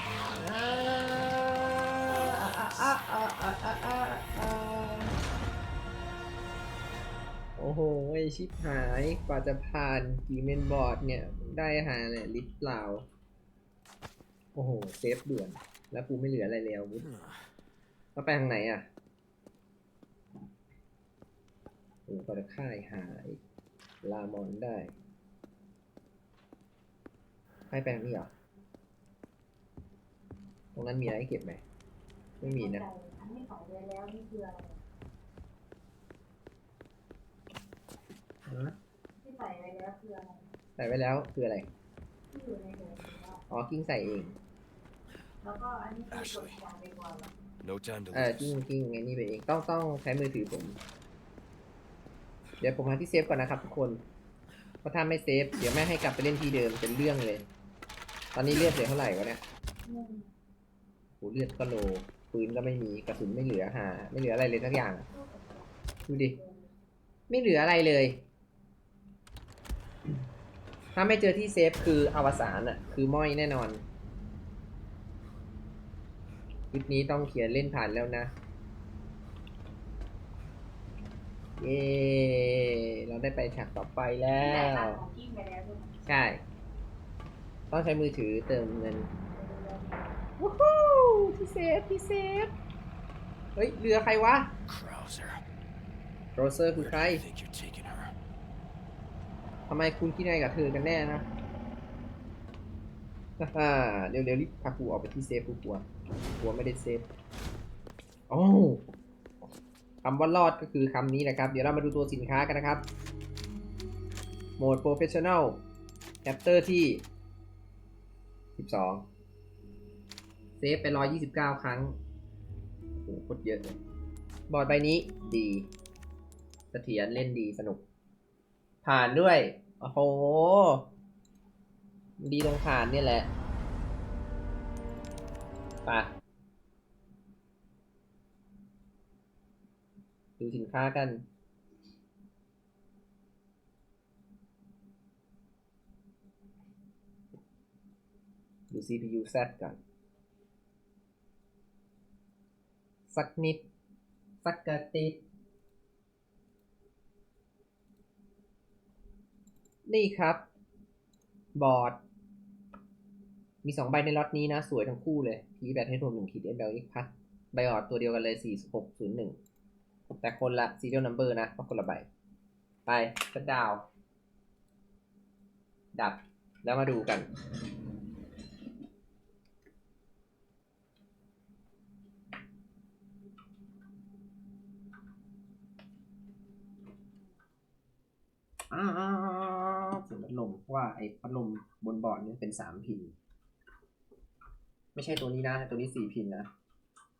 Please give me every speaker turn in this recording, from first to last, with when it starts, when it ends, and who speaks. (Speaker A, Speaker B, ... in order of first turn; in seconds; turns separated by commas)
Speaker A: 0.3-5.2, Speaker A: 7.6-13.1, Speaker A: 14.5-17.1, Speaker A: 18.1-18.9, Speaker A: 22.1-23.4, Speaker A: 24.0-24.9, Speaker A: 27.7-28.3, Speaker A: 30.7-31.6, Speaker B: 32.4-34.8, Speaker A: 32.4-32.8, Speaker A: 38.5-38.8, Speaker B: 39.2-40.5, Speaker A: 40.8-41.7, Speaker B: 42.3-43.4, Speaker A: 43.5-44.4, Speaker B: 45.4-47.3, Speaker C: 46.1-46.6, Speaker C: 47.6-48.6, Speaker A: 48.1-50.8, Speaker A: 52.6-54.0, Speaker A: 54.8-57.5, Speaker A: 58.3-59.4, Speaker B: 59.9-60.2, Speaker A: 61.2-65.1, Speaker B: 65.1-66.7, Speaker A: 66.1-66.4, Speaker A: 67.3-68.2, Speaker A: 70.9-73.8, Speaker A: 76.7-78.3, Speaker A: 81.6-85.0, Speaker B: 84.4-85.9, Speaker A: 86.0-86.4, Speaker A: 87.7-89.1, Speaker B: 89.3-90.1, Speaker A: 90.4-92.5, Speaker A: 93.5-94.5, Speaker C: 94.7-95.4, Speaker A: 96.3-97.2, Speaker C: 96.8-98.1, Speaker A: 99.7-101.3, Speaker A: 103.4-105.8, Speaker A: 106.4-107.1, Speaker A: 108.3-108.8, Speaker A: 110.0-112.8, Speaker A: 114.6-115.6, Speaker A: 116.2-117.0, Speaker A: 118.5-119.0, Speaker A: 120.6-121.9, Speaker A: 122.9-123.8, Speaker A: 124.5-125.7, Speaker A: 126.7-127.8, Speaker A: 128.8-130.9, Speaker A: 132.2-133.3, Speaker A: 135.8-136.1, Speaker A: 140.4-141.2, Speaker A: 148.7-149.8, Speaker A: 153.1-153.7, Speaker A: 154.4-155.2, Speaker A: 159.8-160.4, Speaker A: 161.6-162.0, Speaker A: 163.6-169.4, Speaker A: 170.2-172.1, Speaker A: 172.8-173.8, Speaker A: 175.9-177.3, Speaker A: 188.7-193.1, Speaker A: 194.9-196.5